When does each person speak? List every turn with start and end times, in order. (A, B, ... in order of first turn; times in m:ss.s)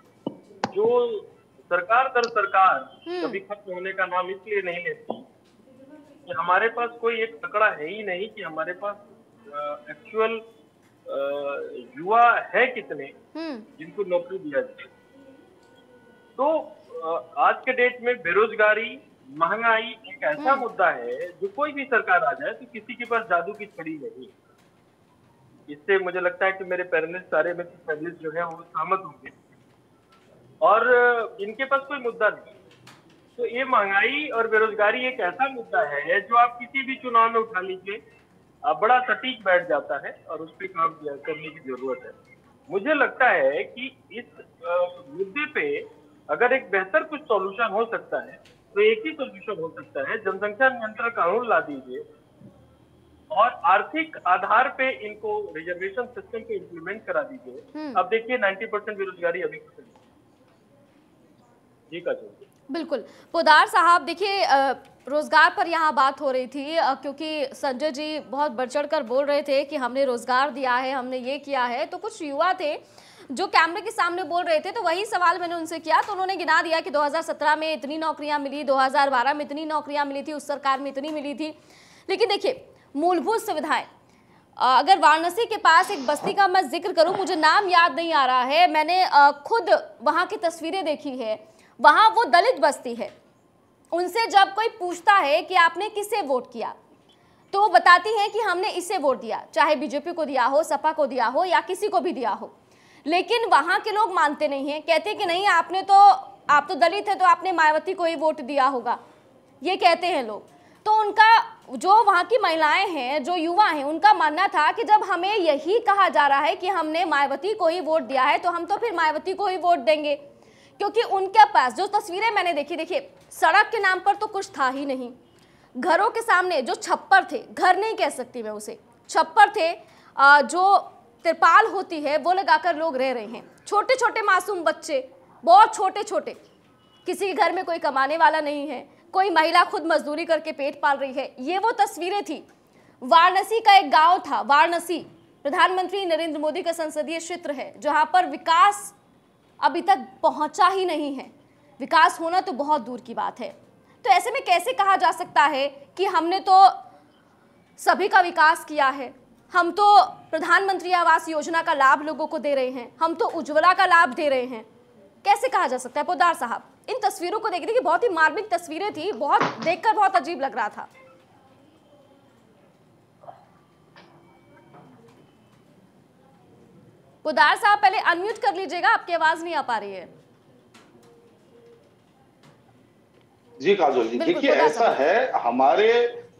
0:00.7-0:05.2 A
0:03.0-0:03.4 B
0:06.3-0:10.4 A
0:11.1-0:13.1 A
0:13.3-0:13.7 B
0:13.8-0:14.9 A
0:16.4-0:24.3 A
0:20.4-0:20.6 B
0:25.7-0:29.3 A
0:30.6-0:32.5 A
0:33.4-0:38.0 A
0:38.6-0:42.1 A
0:42.7-0:52.0 A
0:53.3-0:59.9 A
1:01.9-1:02.4 A
1:02.7-1:21.5 B
1:22.1-1:23.9 B
1:24.6-1:33.1 B
1:33.9-1:36.7 B
1:37.5-1:42.5 B
1:43.0-1:49.0 B
1:49.6-2:00.2 B
2:00.8-2:05.1 B
2:05.8-2:16.4 B
2:17.0-2:22.4 B
2:23.0-2:28.9 B
2:29.6-2:36.8 B
2:37.8-2:44.6 B
2:45.2-2:50.9 B
2:57.2-3:00.1 B
3:03.6-3:06.2 C
3:04.2-3:05.0 B